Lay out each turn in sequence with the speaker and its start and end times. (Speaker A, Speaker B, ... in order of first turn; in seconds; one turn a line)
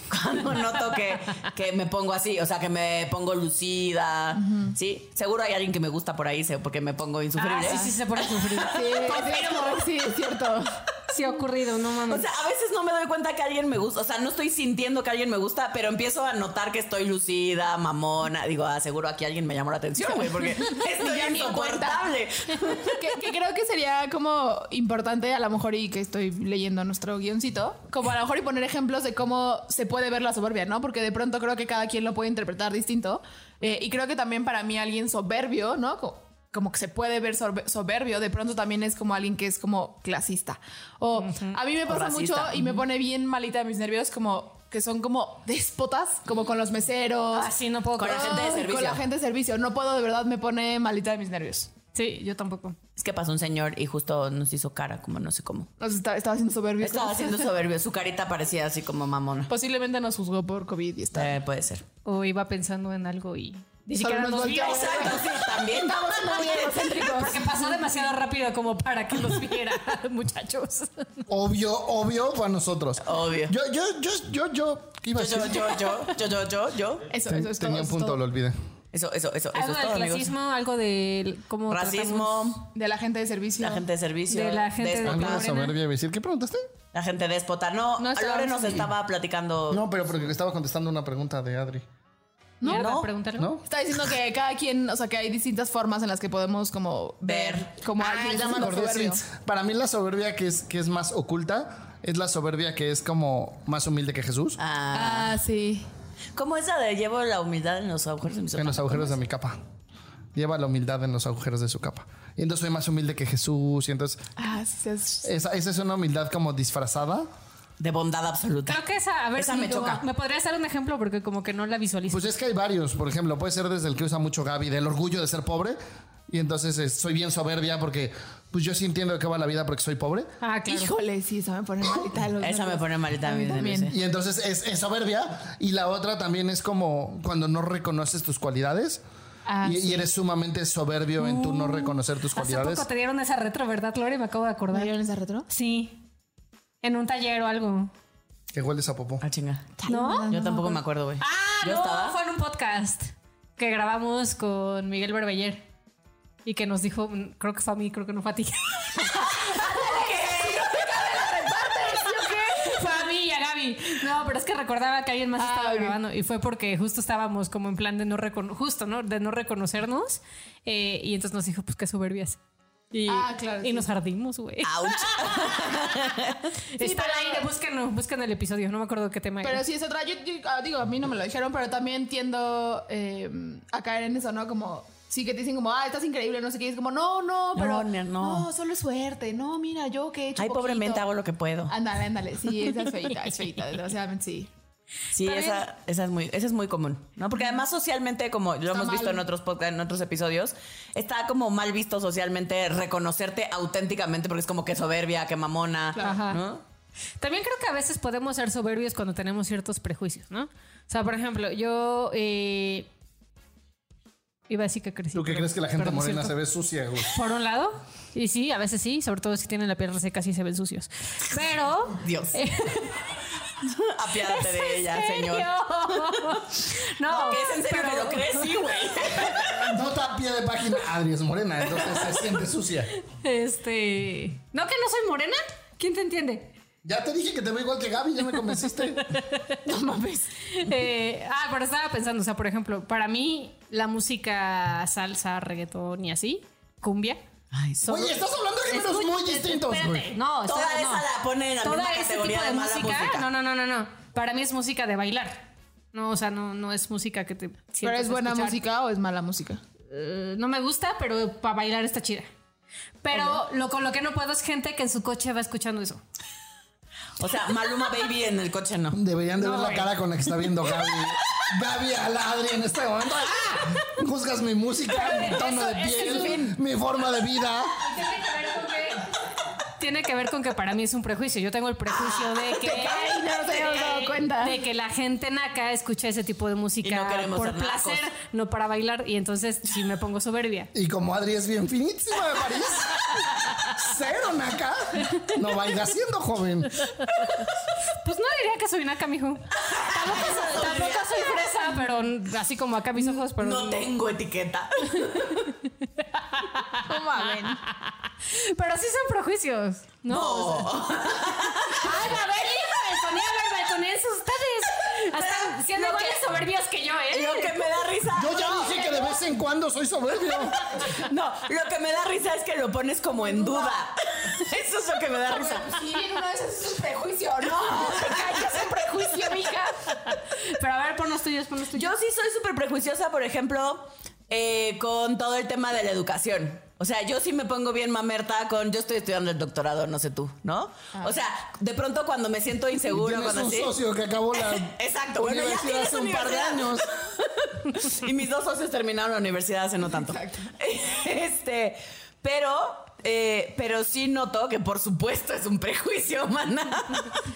Speaker A: 0.1-9.1
Speaker B: 4.3-4.7
Speaker C: 7.4-9.9
Speaker B: 7.6-7.9
Speaker B: 8.7-10.8
Speaker C: 11.1-12.2
Speaker A: 12.1-23.0
Speaker B: 20.6-22.0
Speaker B: 22.6-51.7
Speaker C: 41.1-41.6
Speaker A: 41.9-42.8
Speaker C: 47.3-48.5
Speaker A: 48.0-49.0
Speaker C: 51.9-52.8
Speaker A: 53.0-55.7
Speaker B: 55.8-57.5
Speaker A: 56.8-59.5
Speaker B: 59.5-61.3
Speaker A: 61.1-61.8
Speaker C: 62.0-65.4
Speaker B: 63.9-68.1
Speaker A: 64.4-66.6
Speaker C: 66.5-71.1
Speaker D: 71.3-76.0
Speaker A: 73.0-73.5
Speaker A: 75.2-77.1
Speaker B: 77.1-78.2
Speaker D: 77.3-78.6
Speaker A: 78.9-80.3
Speaker C: 79.5-82.5
Speaker A: 81.7-82.7
Speaker B: 82.7-83.9
Speaker A: 83.6-85.5
Speaker C: 84.3-85.8
Speaker D: 85.0-86.6
Speaker A: 86.9-89.8
Speaker B: 88.0-88.9
Speaker D: 89.7-91.8
Speaker B: 92.6-92.9
Speaker C: 92.6-93.5
Speaker A: 92.7-93.1
Speaker D: 93.4-93.6
Speaker B: 93.7-99.2
Speaker A: 97.2-98.7
Speaker D: 98.1-104.6
Speaker A: 104.6-105.4
Speaker B: 104.9-105.9
Speaker A: 106.4-109.1
Speaker D: 108.6-109.6
Speaker D: 110.3-114.2
Speaker B: 114.4-115.3
Speaker D: 115.2-117.3
Speaker A: 117.8-118.8
Speaker C: 118.7-122.2
Speaker A: 119.4-120.0
Speaker D: 122.1-130.3
Speaker C: 130.4-130.9
Speaker B: 130.7-133.9
Speaker A: 132.4-133.9
Speaker D: 133.9-139.0
Speaker C: 139.5-140.1
Speaker D: 139.6-142.9
Speaker C: 141.2-144.9
Speaker B: 144.7-145.5
Speaker C: 145.5-146.0
Speaker C: 146.8-147.9
Speaker D: 148.5-149.2
Speaker A: 149.2-152.2
Speaker B: 149.8-150.8
Speaker C: 149.9-150.3
Speaker C: 151.2-155.6
Speaker C: 156.4-159.8
Speaker B: 159.4-163.0
Speaker A: 159.6-160.9
Speaker C: 162.4-172.4
Speaker B: 165.4-166.0
Speaker C: 172.9-176.2
Speaker B: 173.1-173.9
Speaker A: 174.6-176.5
Speaker C: 176.7-179.6
Speaker B: 176.8-177.5
Speaker B: 179.4-191.1
Speaker A: 187.6-188.5
Speaker A: 190.4-191.8
Speaker B: 191.7-194.5
Speaker A: 195.1-206.6
Speaker B: 195.2-195.6
Speaker B: 198.7-199.2
Speaker B: 205.9-206.2
Speaker C: 206.0-206.4
Speaker C: 207.2-212.9
Speaker C: 214.5-216.3
Speaker D: 215.1-217.1
Speaker C: 217.1-223.2
Speaker A: 221.9-222.4
Speaker A: 223.6-229.7
Speaker C: 224.3-229.5
Speaker D: 229.6-232.9
Speaker C: 233.1-236.6
Speaker D: 236.8-239.2
Speaker C: 238.7-239.6
Speaker B: 239.7-240.3
Speaker C: 240.5-247.2
Speaker A: 247.5-248.1
Speaker D: 247.9-250.2
Speaker C: 248.7-251.1
Speaker A: 250.4-253.3
Speaker C: 251.6-258.6
Speaker B: 257.8-259.6
Speaker C: 259.9-262.3
Speaker C: 263.0-266.0
Speaker B: 263.1-263.4
Speaker A: 267.2-269.0
Speaker D: 268.9-277.9
Speaker C: 269.4-269.9
Speaker C: 274.9-276.6
Speaker C: 277.8-279.1
Speaker C: 279.8-290.7
Speaker B: 282.0-284.6
Speaker A: 286.8-288.1
Speaker D: 290.7-296.9
Speaker C: 298.0-303.9
Speaker A: 299.6-301.4
Speaker A: 303.4-305.5
Speaker C: 306.1-310.9
Speaker B: 306.9-307.6
Speaker A: 310.1-312.1
Speaker C: 311.7-317.7
Speaker A: 315.1-316.4
Speaker A: 317.1-318.9
Speaker D: 318.1-320.6
Speaker B: 318.7-319.1
Speaker A: 320.8-325.7
Speaker B: 323.2-323.8
Speaker B: 325.3-330.2
Speaker A: 328.0-328.4
Speaker C: 330.3-331.9
Speaker A: 331.7-343.8
Speaker D: 342.9-346.9
Speaker A: 344.4-357.1
Speaker B: 349.9-350.5